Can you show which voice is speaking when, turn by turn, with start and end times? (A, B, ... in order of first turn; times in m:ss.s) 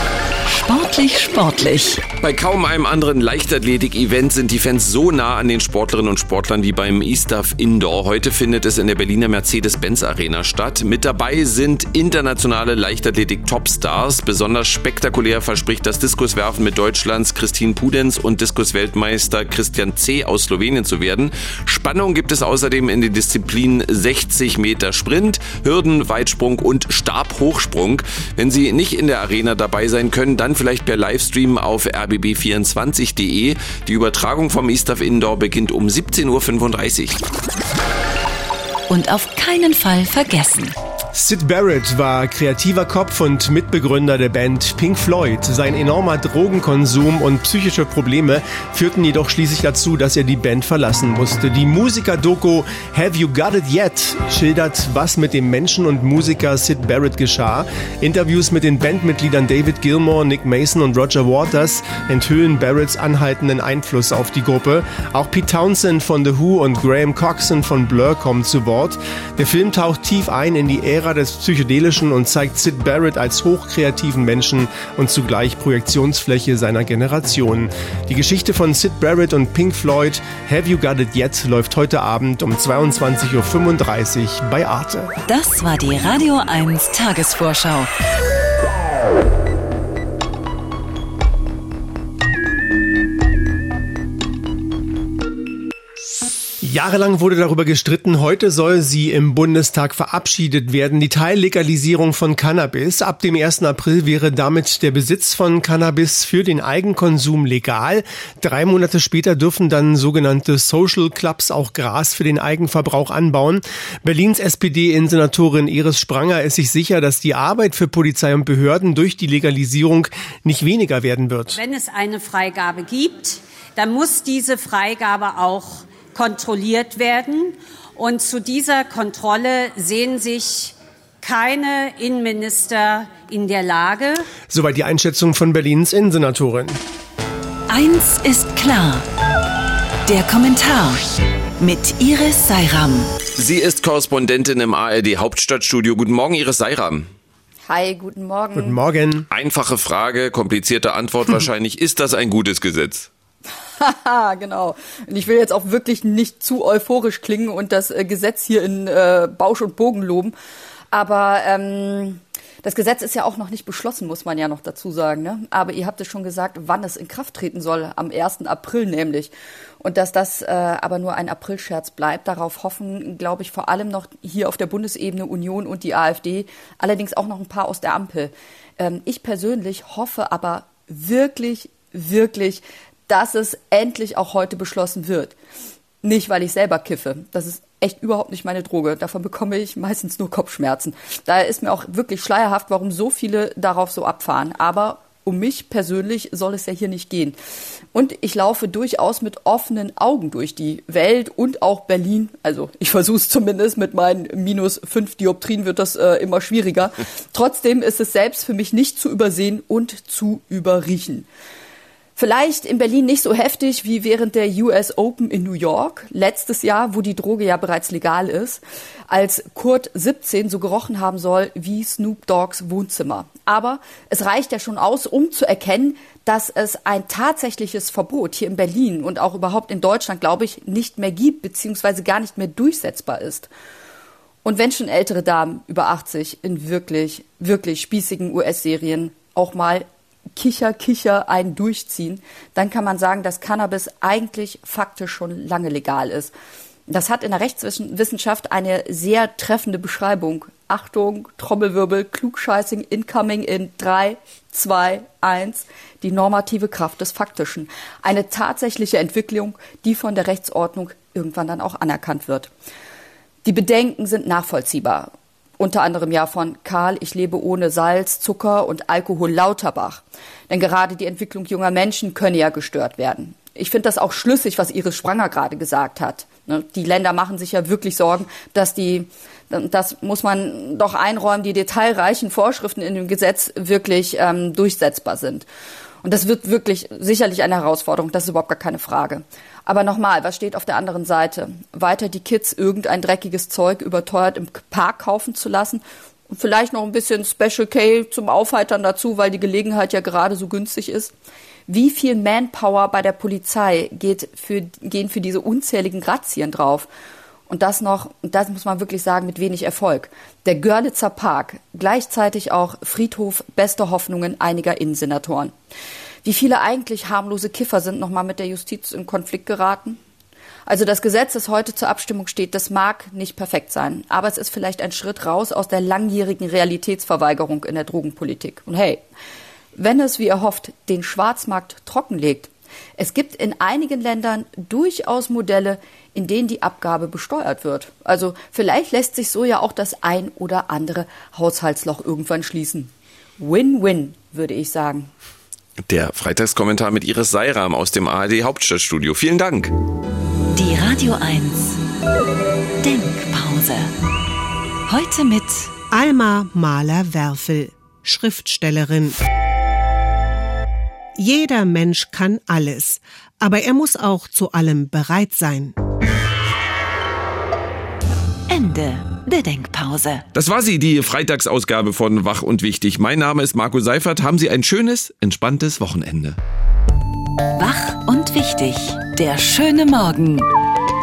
0:00.5-0:02.0 A
0:02.2-0:37.2 B
0:38.9-0:40.8 A
0:41.1-1:25.1 C
1:25.3-1:27.9 A
1:36.6-2:01.6 C
2:01.6-2:14.3 D
2:14.5-2:16.8 C
2:17.7-2:19.0 A
2:20.1-2:21.0 A
2:21.6-2:23.1 A
2:23.4-2:27.1 B
2:27.6-2:28.8 E
2:28.6-2:29.3 C
2:29.3-2:33.1 B
2:33.8-2:40.3 E
2:40.9-3:05.4 E
3:06.0-3:17.4 E
3:17.9-3:31.3 E
3:32.2-3:53.5 E
3:54.4-3:59.9 E
4:00.4-4:06.3 E
4:06.9-4:22.5 E
4:23.4-4:45.4 E
4:46.0-5:01.1 E
5:01.7-5:06.9 E
5:07.5-5:15.5 E
5:16.2-5:20.0 E
5:20.7-5:29.0 E
5:29.8-5:45.1 E
5:45.9-5:49.7 B
5:50.6-5:51.8 A
5:52.8-5:53.9 A
5:54.9-5:55.7 A
5:55.9-5:59.2 F
6:01.2-6:05.8 F
6:08.5-6:10.2 A
6:10.3-6:16.4 B
6:17.6-6:20.5 A